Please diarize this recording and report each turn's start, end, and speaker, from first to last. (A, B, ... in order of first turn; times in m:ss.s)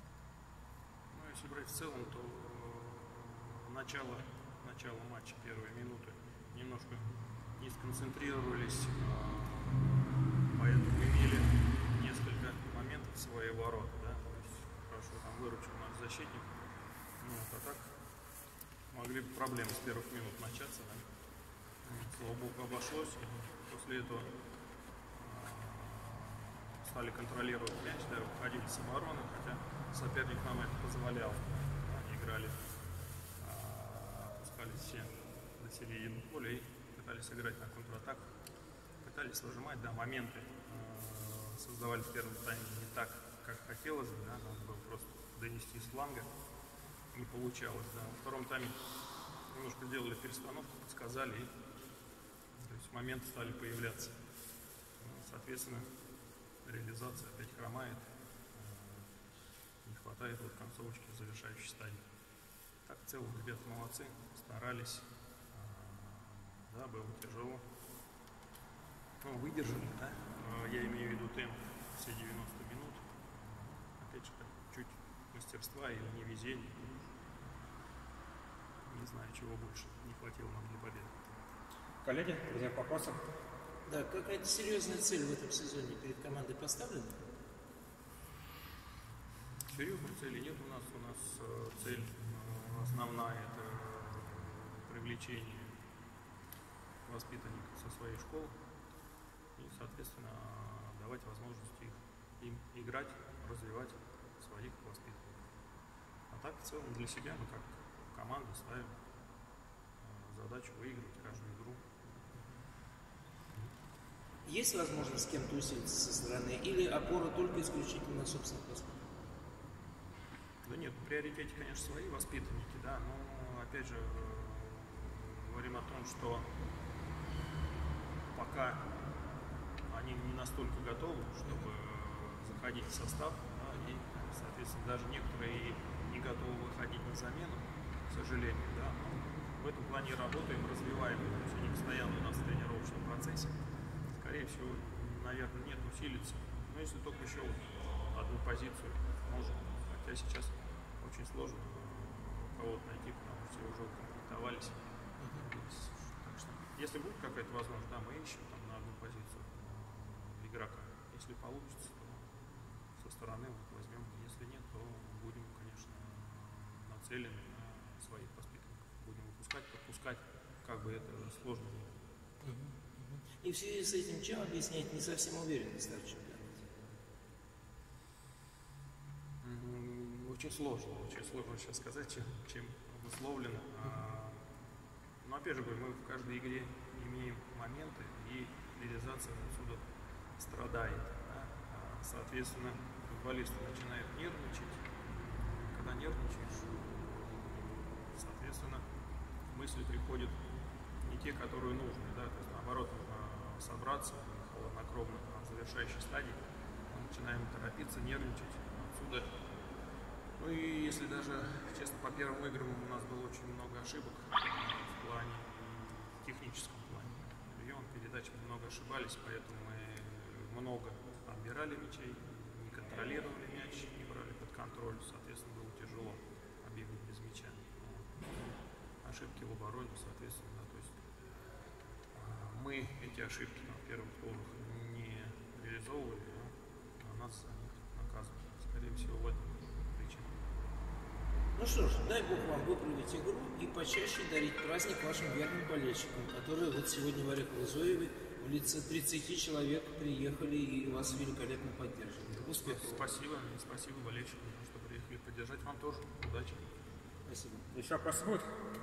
0:01.1-0:16.7 A
0:17.2-0:18.0 A
0:18.9-0:21.0 A
0:21.8-0:24.3 A
0:25.2-0:32.6 A
0:33.4-0:38.3 A
0:39.0-0:46.3 A
0:47.1-0:48.8 A
0:49.4-0:51.5 A
0:52.6-0:54.2 A
0:55.0-0:55.9 A
0:56.6-0:59.1 A
0:59.8-1:02.0 A
1:02.8-1:07.6 A
1:09.2-1:13.0 A
1:13.9-1:17.1 A
1:18.8-1:21.1 A
1:22.0-1:23.2 B
1:23.8-1:27.2 C
1:29.7-1:35.8 A
1:37.0-1:38.6 A
1:39.6-1:45.4 A
1:46.3-1:48.9 A
1:50.0-1:51.9 A
1:54.4-1:59.1 C
2:00.6-2:06.5 A
2:08.3-2:09.0 A
2:09.9-2:23.6 A
2:24.1-2:52.0 A
2:52.4-2:56.6 C
2:59.4-3:04.4 A
3:05.2-3:09.8 A
3:10.4-3:14.9 A
3:15.4-3:18.8 A
3:19.5-3:20.4 A
3:21.0-3:29.5 A
3:30.4-3:48.5 A
3:49.0-3:50.9 A
3:52.1-4:00.3 A
4:01.6-4:13.0 C
4:12.5-4:16.6 A
4:17.3-4:17.7 C
4:17.7-4:18.4 B